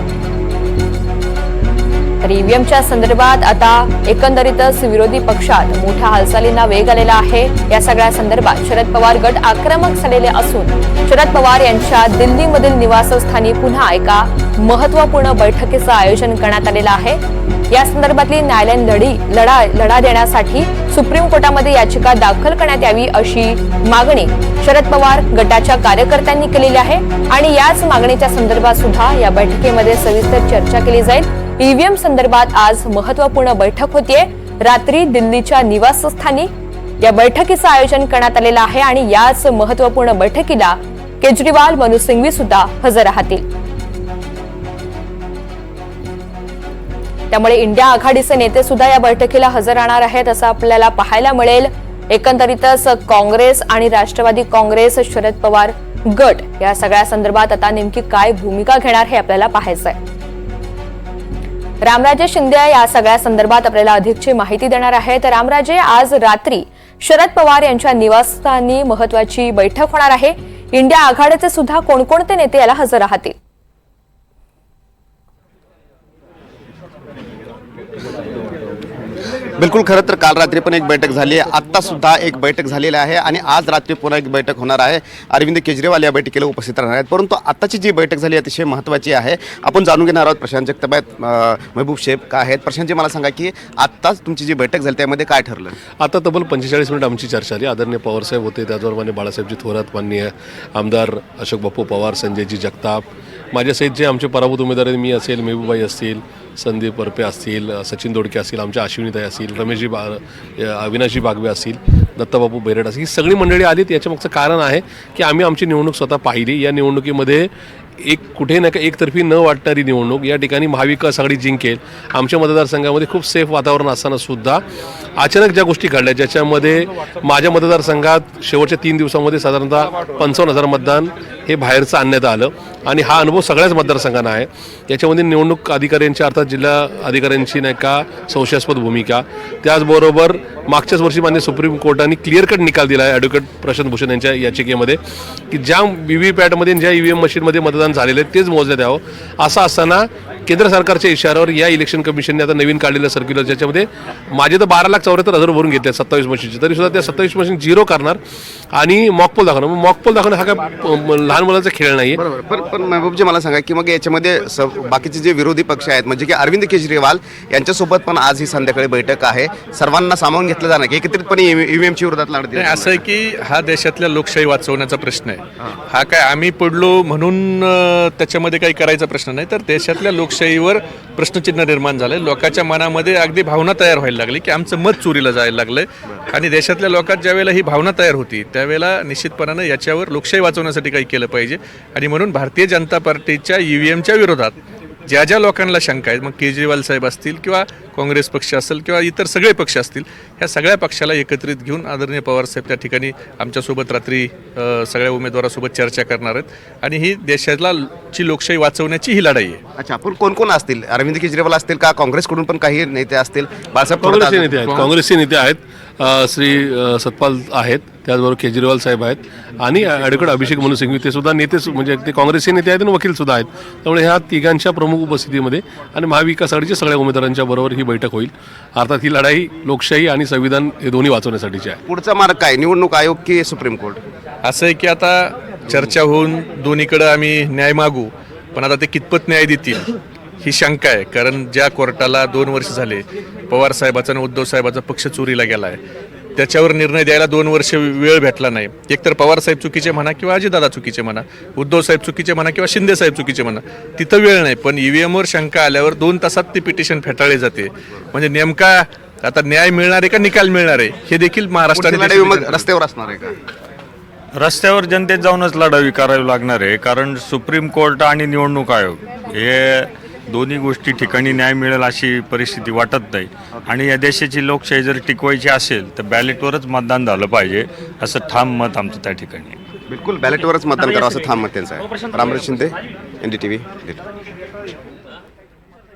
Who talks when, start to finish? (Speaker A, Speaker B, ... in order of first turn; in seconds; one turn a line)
Speaker A: 2.2-17.2
Speaker A: 17.7-36.5
Speaker A: 37.0-43.5
Speaker A: 47.3-60.0
Speaker A: 61.8-73.3
Speaker B: 79.6-95.8
Speaker C: 96.0-124.6
Speaker C: 125.2-158.2
Speaker C: 158.7-162.2
Speaker B: 162.2-173.0
Speaker D: 172.6-194.5
Speaker D: 195.1-209.6
Speaker B: 209.8-214.9
Speaker C: 214.0-231.8
Speaker B: 231.9-234.0
Speaker D: 234.4-245.8
Speaker D: 246.4-262.7
Speaker B: 261.7-263.4
Speaker E: 264.4-279.6
Speaker B: 279.9-284.0